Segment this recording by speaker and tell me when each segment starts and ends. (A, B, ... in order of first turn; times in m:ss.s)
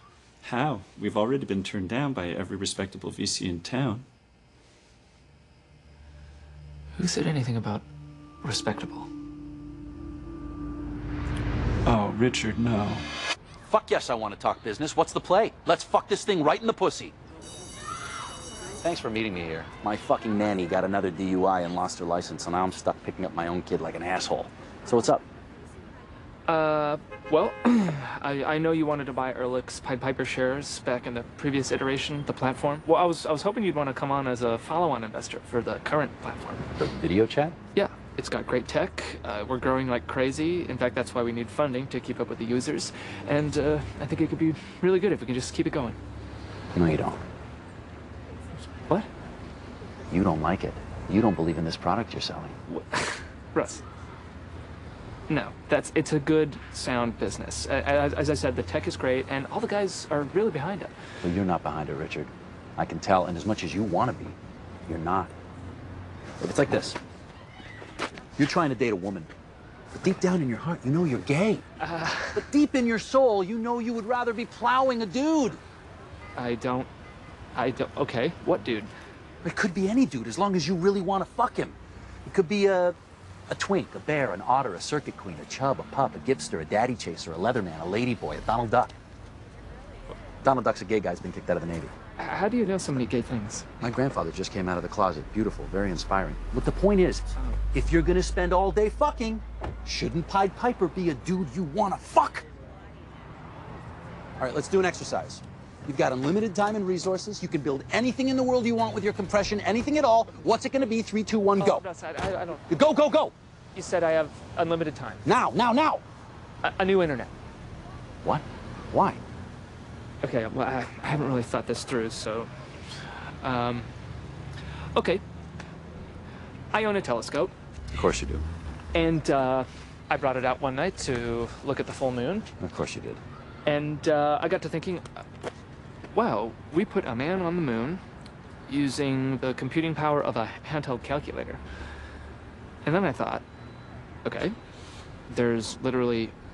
0:00.4-0:04.1 A
0:07.0-0:07.8 B
0:08.4-0:09.1 B
0:11.9-0:13.0 A
0:13.6-0:17.1 C
0:18.8-0:25.2 C
0:26.5-0:36.7 B
0:36.8-0:37.6 C
0:37.8-0:46.0 B
0:46.8-0:47.2 C
0:50.1-0:52.6 C
0:52.7-0:53.8 B
0:55.3-1:00.9 B
1:01.2-1:05.3 C
1:06.4-1:07.0 C
1:08.4-1:09.3 C
1:09.9-1:11.6 C
1:11.8-1:12.5 B
1:12.4-1:15.6 C
1:16.4-1:16.9 B
1:17.6-1:18.9 B
1:19.4-1:23.0 C
1:23.5-1:28.9 C
1:30.4-1:31.9 C
1:32.2-1:33.7 B
1:33.8-1:42.4 C
1:44.4-1:51.8 C
1:51.6-1:52.9 B
1:52.7-1:53.3 C
1:53.8-1:55.3 B
1:55.2-1:56.0 C
1:56.6-1:57.3 B
1:58.2-1:59.2 C
2:00.2-2:02.5 B
2:03.4-2:03.9 B
2:05.0-2:05.2 B
2:06.7-2:07.5 B
2:07.9-2:08.5 C
2:08.9-2:12.5 B
2:12.6-2:13.2 C
2:13.6-2:15.1 B
2:16.1-2:18.0 B
2:18.7-2:21.6 B
2:22.8-2:23.4 B
2:24.2-2:24.6 B
2:25.3-2:26.4 B